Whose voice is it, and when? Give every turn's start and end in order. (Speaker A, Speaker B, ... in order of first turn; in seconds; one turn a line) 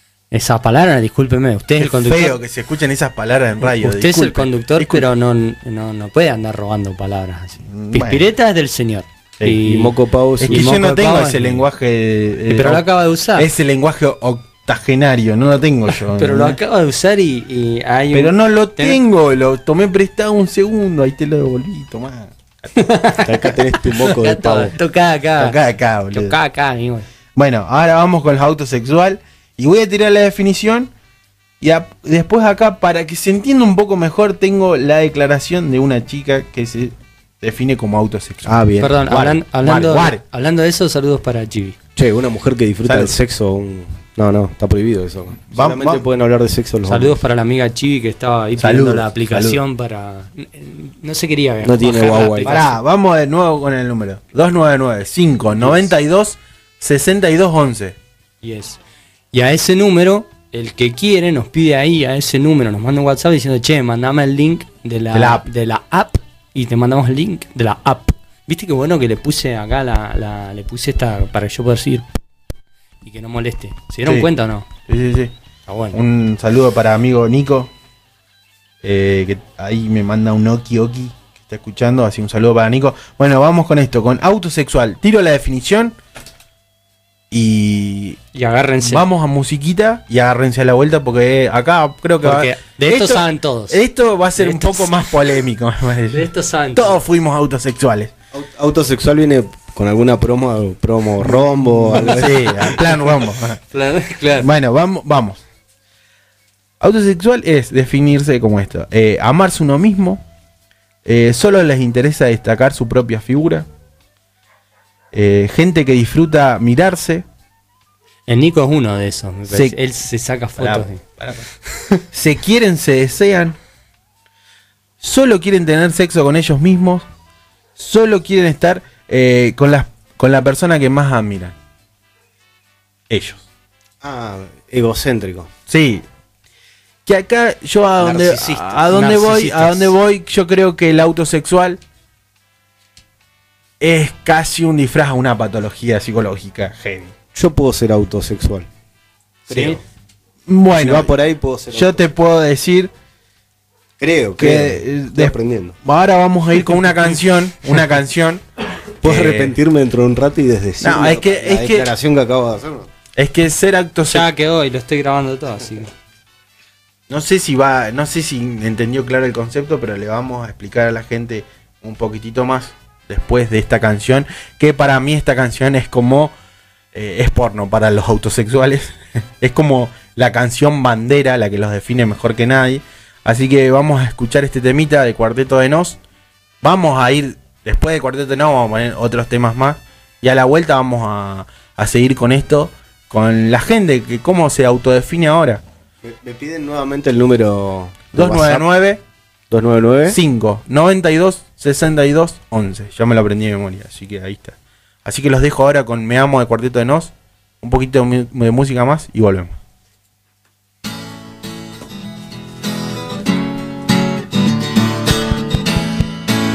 Speaker A: 0.3-2.4
Speaker B: 1.8-5.1
Speaker A: 3.6-9.9
Speaker B: 7.7-8.3
Speaker C: 9.6-10.8
Speaker B: 10.4-12.8
Speaker A: 10.5-11.7
Speaker A: 12.5-13.5
Speaker B: 13.4-16.6
Speaker A: 16.0-19.0
Speaker B: 18.1-22.8
Speaker A: 22.8-25.6
Speaker C: 23.2-24.7
Speaker B: 25.4-26.4
Speaker A: 26.1-27.1
Speaker B: 27.4-30.9
Speaker B: 31.6-40.2
Speaker C: 38.5-39.0
Speaker A: 38.8-41.8
Speaker C: 42.0-47.2
Speaker B: 42.9-43.1
Speaker B: 45.5-46.0
Speaker A: 46.9-52.8
Speaker B: 48.6-49.6
Speaker C: 51.6-52.6
Speaker B: 52.4-58.0
Speaker A: 58.4-58.8
Speaker A: 59.3-72.1
Speaker B: 65.1-65.5
Speaker A: 73.0-74.7
Speaker B: 74.9-75.3
Speaker A: 75.7-76.0
Speaker B: 75.9-77.7
Speaker B: 78.8-86.0
Speaker B: 87.3-88.2
Speaker A: 88.3-89.0
Speaker B: 88.8-98.1
Speaker A: 92.2-93.8
Speaker A: 94.4-95.0
Speaker A: 96.1-97.1
Speaker C: 98.3-102.9
Speaker B: 101.3-103.6
Speaker A: 103.7-104.5
Speaker B: 104.4-105.4
Speaker B: 106.8-110.2
Speaker B: 111.1-113.7
Speaker B: 115.1-117.2
Speaker A: 118.3-121.0
Speaker B: 119.5-119.8
Speaker B: 120.6-121.5
Speaker B: 122.1-123.6
Speaker B: 125.0-127.0
Speaker B: 127.8-131.6
Speaker B: 133.1-133.4
Speaker C: 134.0-135.5
Speaker B: 135.7-136.0
Speaker B: 137.1-141.8
Speaker A: 138.0-139.9
Speaker B: 143.8-147.1
Speaker C: 147.3-148.7
Speaker C: 149.5-149.8
Speaker A: 149.5-149.8
Speaker B: 150.5-151.2
Speaker C: 150.8-152.0
Speaker B: 151.7-152.9
Speaker C: 154.0-155.8
Speaker B: 154.4-158.4
Speaker B: 159.0-159.6
Speaker C: 159.0-162.9
Speaker B: 160.8-161.9
Speaker B: 163.2-164.3
Speaker A: 164.1-165.9
Speaker B: 167.1-176.3
Speaker B: 176.9-186.0
Speaker B: 186.6-195.6
Speaker C: 196.0-198.7
Speaker B: 198.1-199.0
Speaker C: 199.5-200.2
Speaker B: 200.1-209.6